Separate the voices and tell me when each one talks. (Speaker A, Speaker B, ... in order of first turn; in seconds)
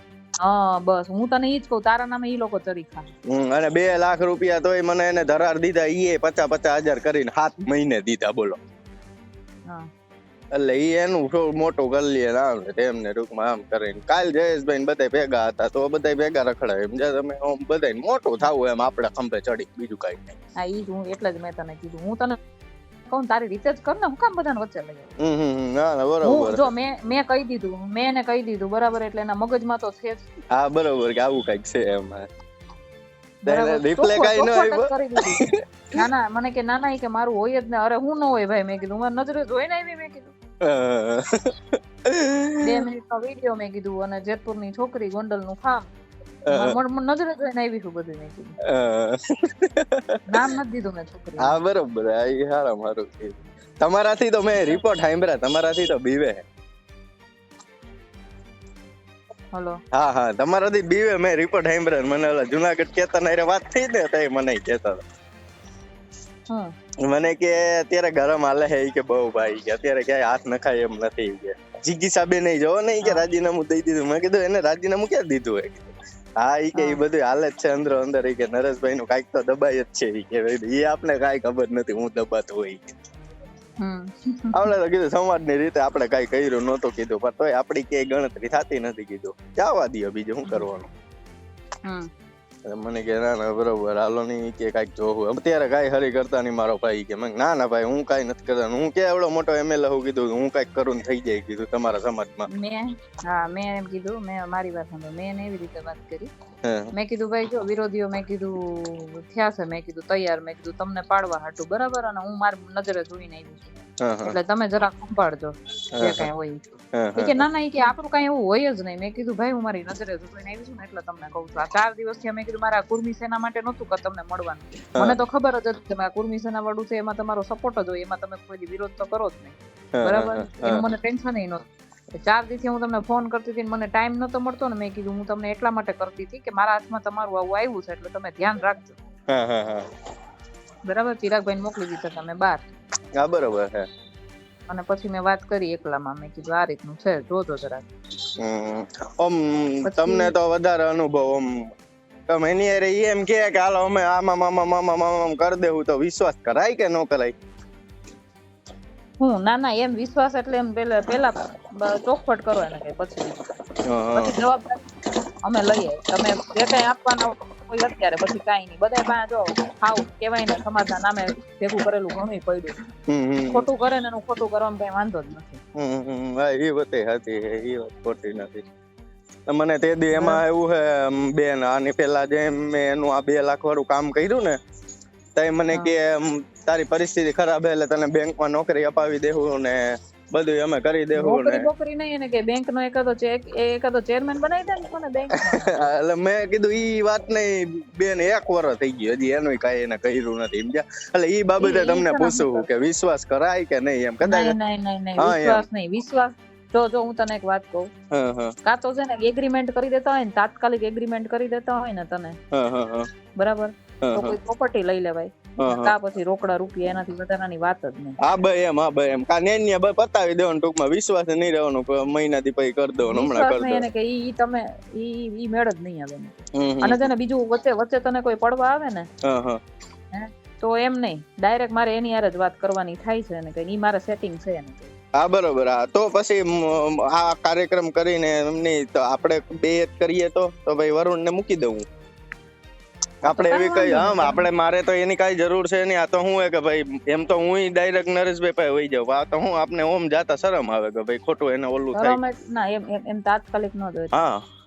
Speaker A: 0.4-3.1, 20.6-22.4, 23.1-25.1, 26.2-30.2, 33.4-40.3, 42.6-45.9, 46.5-48.5, 50.3-51.6, 76.7-77.0, 83.8-84.7, 102.5-106.3, 106.9-131.6, 132.2-139.0, 140.8-142.6, 144.7-147.8, 149.8-150.3, 159.2-163.4, 164.1-164.8, 165.4-172.8, 173.5-175.6, 180.1-180.4, 185.7-186.0, 191.1-195.9, 201.6-202.7, 204.2-207.9, 208.6-212.4, 213.3-218.2, 223.0-229.1, 230.1-234.9, 243.2-244.5, 251.9-254.2
Speaker B: 3.3-8.6, 10.5-20.4, 25.2-26.7, 30.5-32.3, 33.5-36.0, 40.6-42.8, 46.5-46.8, 48.7-50.4, 51.4-56.4, 59.9-65.0, 67.0-75.9, 76.4-83.0, 84.5-90.9, 92.7-102.5, 106.6-106.9, 114.0-114.3, 115.9-116.3, 116.9-117.4, 130.0-130.8, 139.3-139.8, 143.2-143.8, 148.4-151.7, 152.3-157.3, 163.9-164.4, 173.1-173.7, 175.8-178.6, 179.5-184.6, 185.3-191.7, 195.3-204.6, 205.2-205.7, 208.1-208.5, 212.5-213.1, 214.0-214.4, 215.6-215.9, 218.2-223.9, 226.5-227.1, 229.2-229.6, 235.2-241.8, 243.2-252.2, 254.1-254.4